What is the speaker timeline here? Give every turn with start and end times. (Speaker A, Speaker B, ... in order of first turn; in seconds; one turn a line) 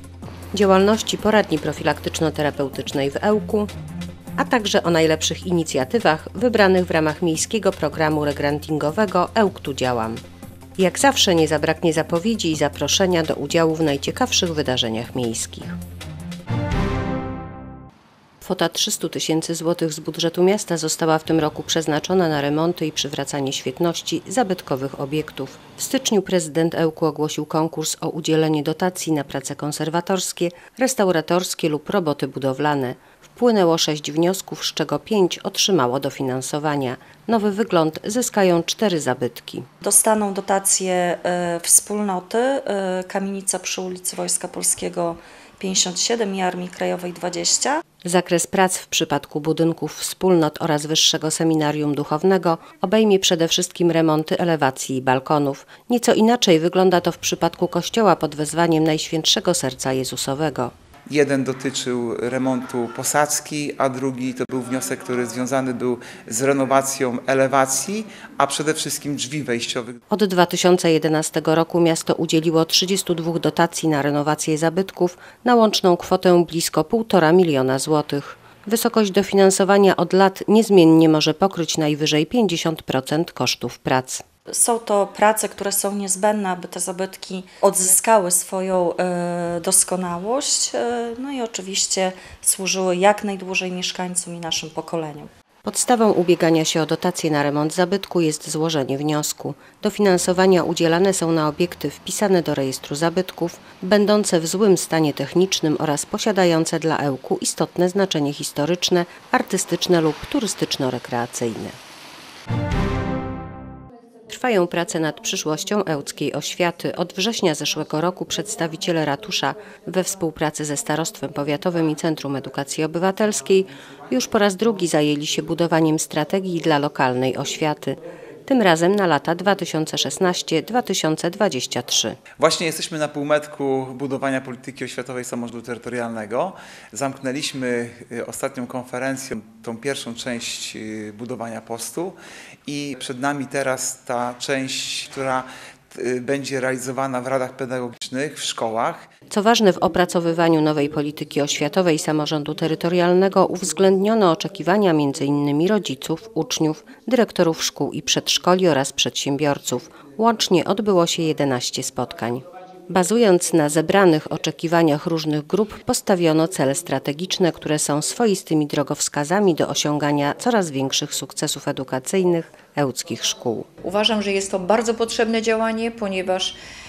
Speaker A: 0.5-3.7
Speaker A: 4.4-10.2
Speaker A: 10.8-15.8
Speaker A: 18.4-39.6
Speaker B: 39.8-47.8
Speaker A: 48.0-60.7
Speaker C: 61.1-70.0
Speaker A: 70.1-84.2
Speaker B: 84.5-95.3
Speaker A: 95.6-111.8
Speaker A: 114.3-132.2
Speaker C: 132.4-142.2
Speaker C: 142.7-149.1
Speaker A: 149.3-173.7
Speaker D: 173.8-176.6